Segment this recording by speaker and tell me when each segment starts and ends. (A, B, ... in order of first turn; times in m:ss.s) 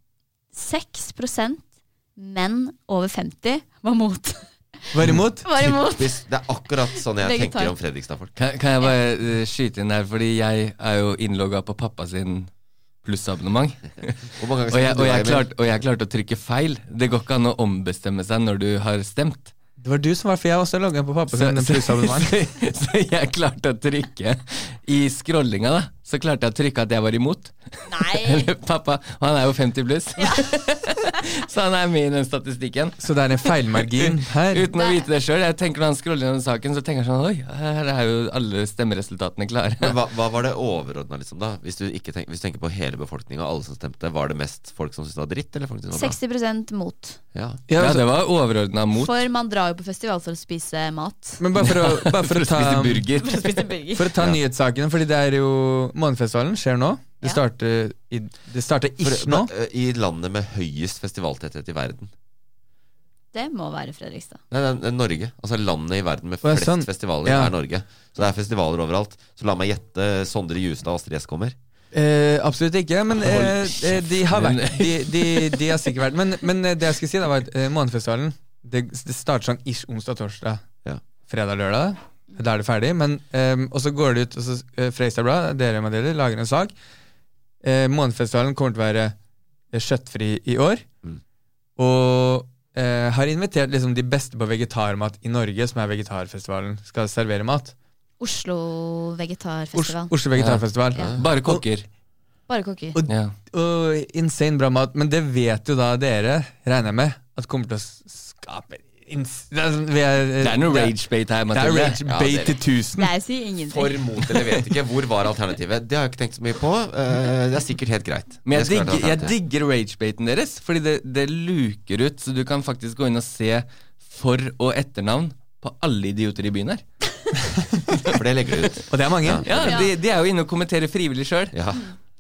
0:00.5-0:01.6 A
0:02.2-0:04.5 A
0:04.9-0:05.5 B
0:05.1-0:08.3 C
0:05.4-0:06.2 A
0:07.2-0:07.7 A
0:08.4-0:12.5 D
0:13.0-0:19.5 D
0:14.4-0:15.5 C
0:19.8-0:22.4 B
0:21.3-0:40.0 D
0:27.9-0:28.5 A
0:33.0-0:34.7 B
0:34.7-0:35.1 A
0:39.8-0:46.2 C
0:45.9-0:47.2 A
0:47.3-0:47.6 C
0:47.7-0:48.1 B
0:47.8-0:49.1 D
0:49.0-0:51.4 A
0:51.4-0:53.0 B
0:51.6-0:53.7 D
0:53.2-0:54.1 A
0:54.0-0:59.5 B
0:59.0-1:02.1 C
1:03.3-1:04.4 A
1:04.5-1:11.6 C
1:06.4-1:07.5 B
1:11.9-1:20.6 B
1:13.2-1:15.7 D
1:21.3-1:26.7 B
1:27.6-1:29.2 B
1:29.7-1:30.8 B
1:31.8-1:37.7 B
1:38.2-1:40.1 A
1:39.7-1:41.6 B
1:40.4-1:40.6 D
1:41.0-1:41.2 C
1:41.2-1:41.9 D
1:42.5-1:43.0 A
1:43.0-1:50.9 B
1:43.1-1:43.3 D
1:50.4-1:52.0 D
1:51.5-1:53.1 B
1:52.1-1:52.6 C
1:53.0-1:54.0 A
1:53.6-1:59.3 C
1:58.5-2:06.8 D
2:08.1-2:09.8 C
2:08.9-2:09.6 B
2:09.4-2:11.6 D
2:09.6-2:09.9 A
2:11.5-2:11.9 C